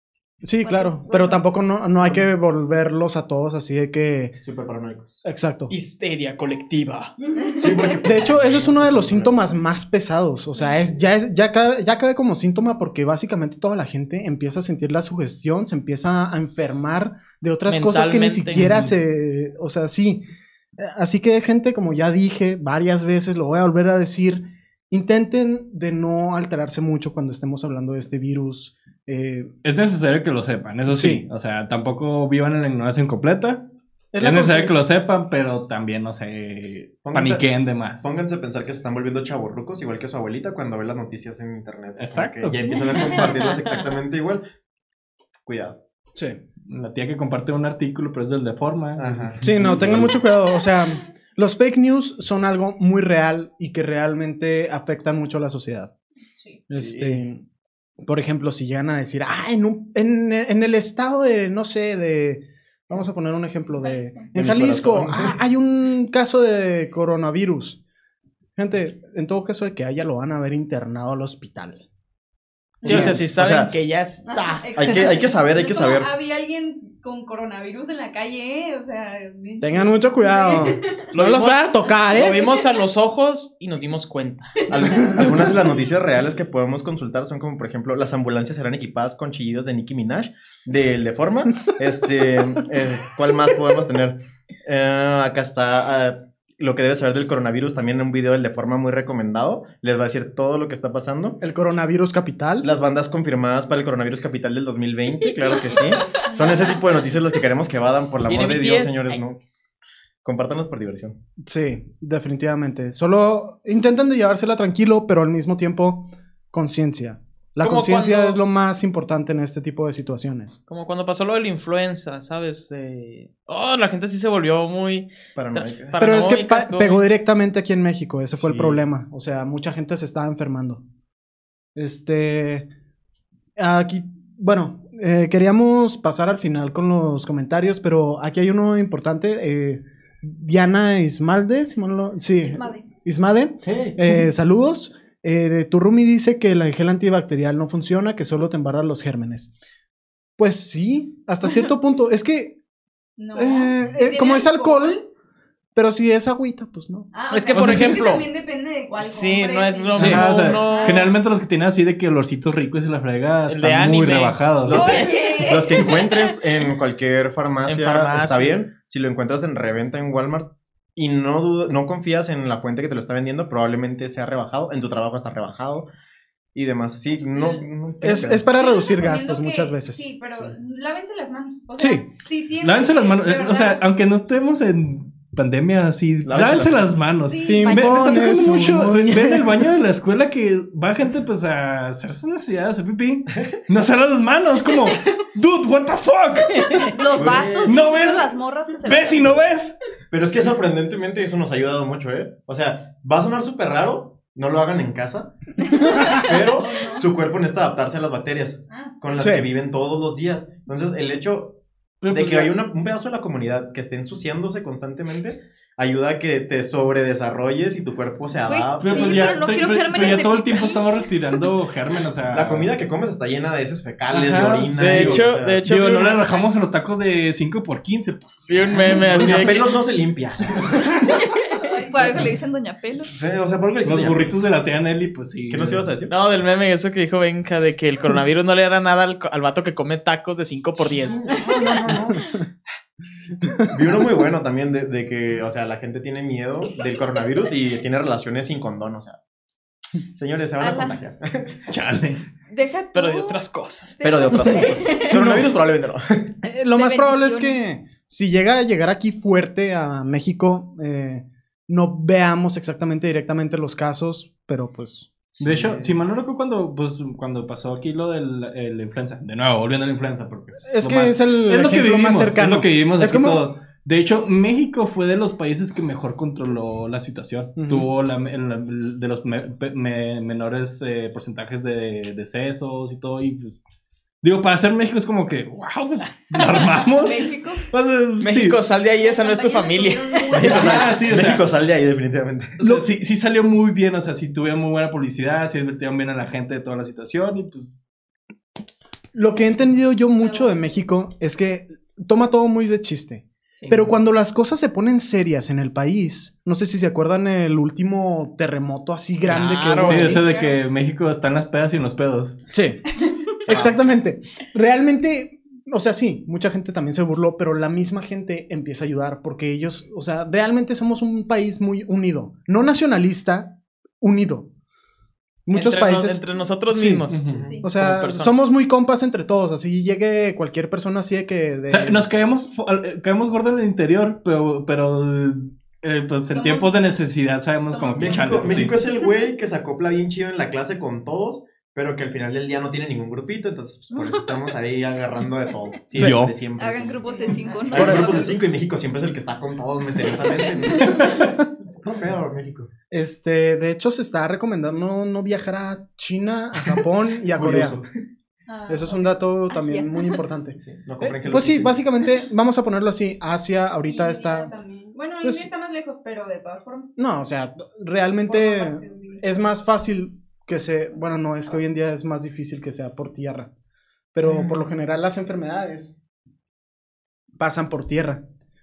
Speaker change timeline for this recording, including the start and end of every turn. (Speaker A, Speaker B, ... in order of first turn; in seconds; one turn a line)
Speaker A: 0.4-4.4
Speaker B: 0.6-1.4
Speaker C: 4.4-5.2
Speaker A: 5.2-5.7
Speaker D: 5.7-7.1
Speaker E: 7.3-7.7
Speaker C: 7.6-9.4
Speaker A: 7.9-20.2
Speaker D: 17.7-18.6
Speaker F: 18.6-18.9
Speaker A: 20.8-29.5
Speaker F: 29.6-33.6
Speaker A: 30.9-31.2
Speaker A: 34.1-34.8
Speaker F: 34.2-38.1
Speaker C: 37.0-37.5
Speaker C: 38.0-44.4
Speaker F: 42.0-43.3
Speaker D: 43.1-43.7
Speaker C: 45.5-45.8
Speaker A: 46.1-46.4
Speaker F: 46.6-50.1
Speaker C: 49.0-50.1
Speaker A: 49.4-55.9
Speaker A: 56.7-57.4
Speaker A: 58.0-67.8
Speaker E: 63.8-64.3
Speaker C: 64.3-65.4
Speaker A: 68.6-71.8
Speaker A: 72.8-73.2
Speaker D: 72.8-74.9
Speaker C: 72.8-73.7
Speaker E: 74.2-81.1
Speaker C: 74.8-76.1
Speaker A: 79.6-82.4
Speaker D: 81.1-84.7
Speaker E: 82.1-82.6
Speaker C: 84.7-101.4
Speaker E: 84.7-85.5
Speaker A: 101.4-102.7
Speaker C: 102.6-109.4
Speaker E: 106.2-106.8
Speaker D: 108.2-109.2
Speaker C: 110.2-111.2
Speaker A: 111.4-120.6
Speaker D: 117.6-118.4
Speaker D: 120.7-127.0
Speaker C: 125.4-126.0
Speaker A: 126.0-130.8
Speaker C: 128.3-128.8
Speaker A: 131.8-132.7
Speaker A: 133.6-149.5
Speaker B: 142.4-142.8
Speaker C: 143.6-144.1
Speaker A: 150.4-152.6
Speaker E: 153.2-155.1
Speaker A: 153.3-155.0
Speaker A: 155.7-157.1
Speaker E: 157.1-161.2
Speaker D: 157.3-158.3
Speaker F: 157.6-157.8
Speaker D: 159.0-161.1
Speaker F: 159.9-165.0
Speaker A: 159.9-160.2
Speaker D: 163.5-165.6
Speaker E: 164.7-166.2
Speaker B: 165.1-165.6
Speaker C: 165.4-175.9
Speaker D: 167.7-168.6
Speaker C: 176.5-178.5
Speaker E: 177.1-177.6
Speaker A: 178.0-180.1
Speaker E: 178.6-183.8
Speaker A: 181.8-182.1
Speaker F: 182.6-196.9
Speaker C: 186.2-187.0
Speaker E: 187.2-187.9
Speaker A: 187.4-189.7
Speaker D: 196.6-197.8
Speaker B: 196.8-199.4
Speaker C: 197.1-197.8
Speaker F: 197.7-198.3
Speaker F: 198.8-199.7
Speaker C: 200.1-219.5
Speaker E: 206.2-207.1
Speaker B: 206.6-207.0
Speaker E: 208.7-209.3
Speaker A: 209.2-209.5
Speaker F: 212.0-212.6
Speaker B: 218.4-221.1
Speaker F: 218.8-222.8
Speaker C: 222.3-225.7
Speaker F: 224.1-229.4
Speaker D: 224.8-226.2
Speaker D: 228.5-229.7
Speaker C: 229.1-230.9
Speaker B: 231.8-233.1
Speaker C: 233.1-234.4
Speaker F: 233.8-235.9
Speaker C: 235.5-236.1
Speaker D: 236.1-241.4
Speaker C: 241.0-241.7
Speaker A: 241.2-242.4
Speaker B: 241.3-241.9
Speaker A: 243.4-243.8
Speaker C: 243.7-249.2
Speaker C: 250.1-251.6
Speaker B: 250.6-251.0
Speaker F: 251.7-252.2
Speaker B: 252.5-255.1
Speaker D: 252.9-254.1
Speaker E: 254.0-255.0
Speaker C: 254.0-256.4
Speaker A: 255.0-255.5
Speaker A: 256.4-265.1
Speaker B: 256.7-257.6
Speaker C: 265.4-266.0
Speaker F: 265.4-283.6
Speaker A: 270.6-273.4
Speaker A: 277.6-277.9
Speaker F: 284.2-288.6
Speaker B: 286.9-287.7
Speaker D: 288.2-290.8
Speaker B: 289.0-290.8
Speaker C: 290.3-292.6
Speaker F: 290.4-291.5
Speaker F: 292.6-297.8
Speaker A: 292.6-292.9
Speaker A: 299.1-310.2
Speaker E: 300.2-300.6
Speaker F: 303.6-303.9
Speaker D: 309.3-310.2
Speaker F: 309.8-312.4
Speaker E: 310.0-310.6
Speaker A: 312.5-312.8
Speaker A: 313.4-324.5
Speaker C: 313.5-313.8
Speaker A: 325.4-327.1
Speaker D: 325.5-328.3
Speaker F: 327.1-327.5
Speaker A: 327.6-332.1
Speaker F: 331.7-338.8
Speaker E: 336.3-337.0
Speaker E: 337.6-339.1
Speaker C: 337.9-352.7
Speaker F: 345.9-346.3
Speaker A: 345.9-346.3
Speaker B: 346.6-348.5
Speaker E: 347.0-348.4
Speaker E: 350.7-351.1
Speaker A: 352.9-357.8
Speaker C: 357.3-357.9
Speaker E: 358.5-359.1
Speaker A: 358.7-364.5
Speaker B: 359.5-360.2
Speaker C: 360.6-361.8
Speaker E: 363.9-367.0
Speaker A: 365.2-365.5
Speaker A: 367.0-373.5
Speaker E: 368.2-369.2
Speaker A: 374.1-375.9
Speaker A: 377.4-378.2